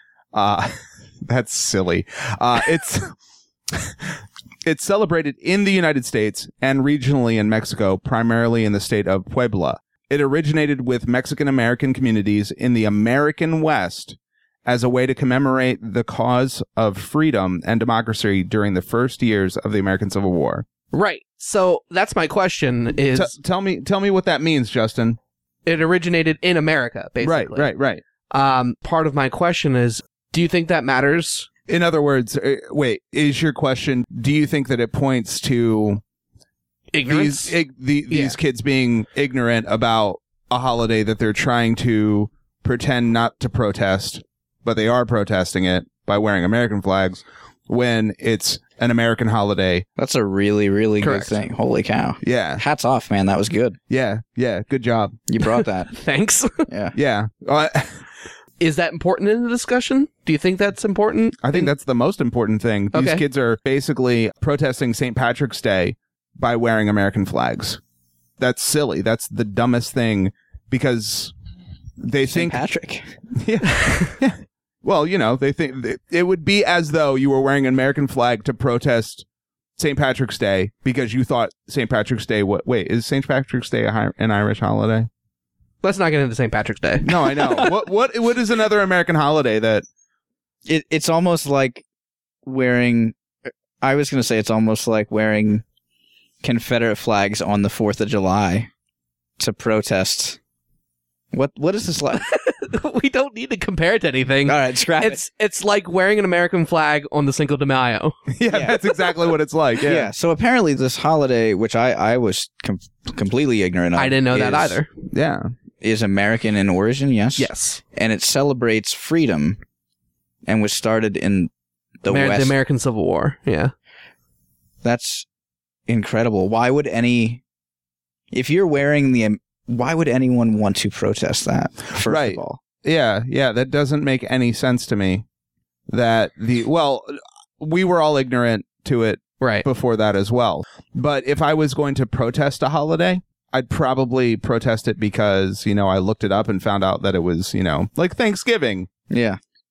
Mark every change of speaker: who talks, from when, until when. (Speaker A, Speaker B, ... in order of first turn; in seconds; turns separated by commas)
Speaker A: 0.3-3.1, Speaker A: 3.7-20.6, Speaker B: 20.9-23.3, Speaker A: 23.1-25.2, Speaker B: 25.6-27.7, Speaker A: 27.2-28.0, Speaker B: 28.3-31.5, Speaker A: 31.7-36.0, Speaker B: 36.9-37.5, Speaker A: 37.0-49.9, Speaker B: 38.1-38.4, Speaker C: 50.0-53.8, Speaker B: 51.0-51.4, Speaker A: 52.2-52.6, Speaker A: 53.9-55.2, Speaker C: 55.3-55.9, Speaker B: 55.4-56.7, Speaker C: 56.7-57.0, Speaker A: 56.9-58.0, Speaker B: 58.6-61.7, Speaker A: 61.4-67.8, Speaker B: 62.9-63.2, Speaker A: 68.4-71.3, Speaker A: 72.0-72.6, Speaker C: 72.2-73.2, Speaker A: 73.3-79.2, Speaker A: 79.8-85.1, Speaker B: 85.8-87.1, Speaker A: 87.0-89.8, Speaker C: 87.3-87.6, Speaker C: 90.7-91.8, Speaker C: 92.5-93.1, Speaker C: 93.8-95.6, Speaker C: 96.4-98.7, Speaker C: 99.4-100.4, Speaker C: 101.3-102.3, Speaker B: 102.3-108.2, Speaker C: 104.5-105.2, Speaker A: 108.3-110.1, Speaker C: 108.5-108.8, Speaker C: 109.8-114.8, Speaker B: 114.0-114.9, Speaker A: 115.1-115.5, Speaker C: 115.8-119.6, Speaker B: 117.4-117.8, Speaker C: 120.5-121.5, Speaker C: 122.0-122.5, Speaker B: 122.1-123.7, Speaker C: 124.8-125.2, Speaker C: 125.9-127.4, Speaker C: 128.3-132.6, Speaker A: 132.0-135.2, Speaker A: 135.9-148.9, Speaker B: 139.4-139.7, Speaker C: 149.1-149.4